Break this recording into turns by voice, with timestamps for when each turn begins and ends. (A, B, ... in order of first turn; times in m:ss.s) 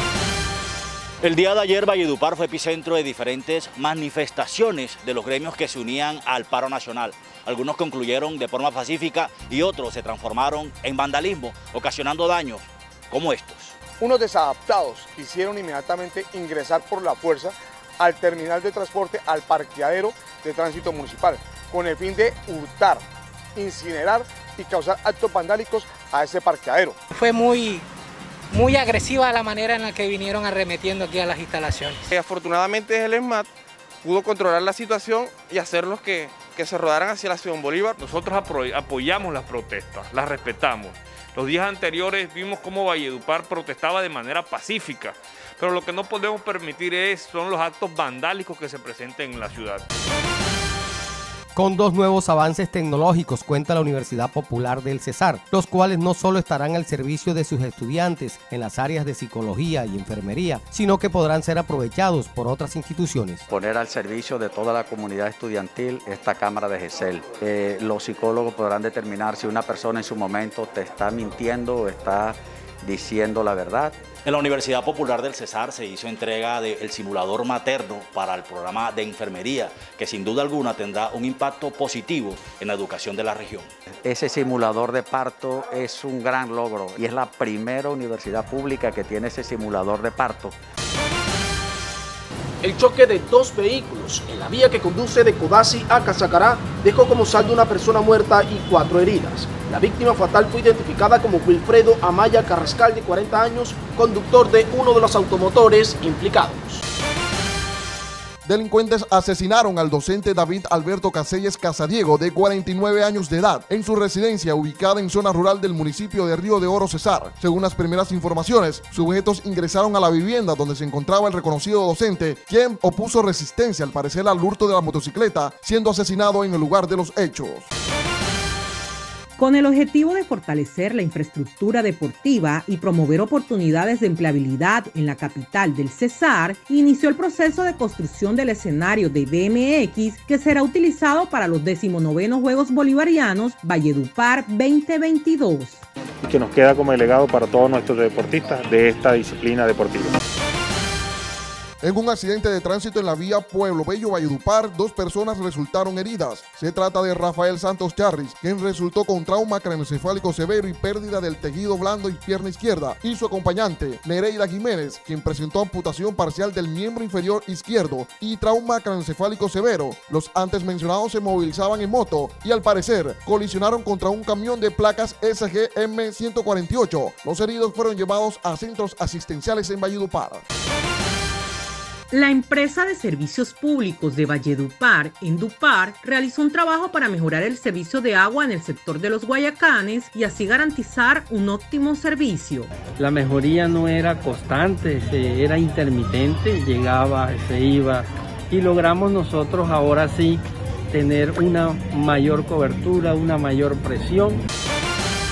0:01.2-0:13.8 A
0:14.0-0:23.0 B
0:23.6-0:27.0 B
0:27.1-0:27.9 C
0:28.5-0:32.0 C
0:32.1-0:33.5 D
0:34.0-0:38.0 D
0:38.0-0:49.8 E
0:51.6-1:03.4 F
1:03.5-1:14.0 G
1:14.2-1:23.7 A
1:24.0-1:30.6 G
1:32.6-1:46.8 H
1:48.4-2:07.7 I
2:09.4-2:25.8 J
2:26.2-2:30.1 K
2:31.8-3:00.4 I
3:02.1-3:12.7 J
3:13.0-3:24.4 L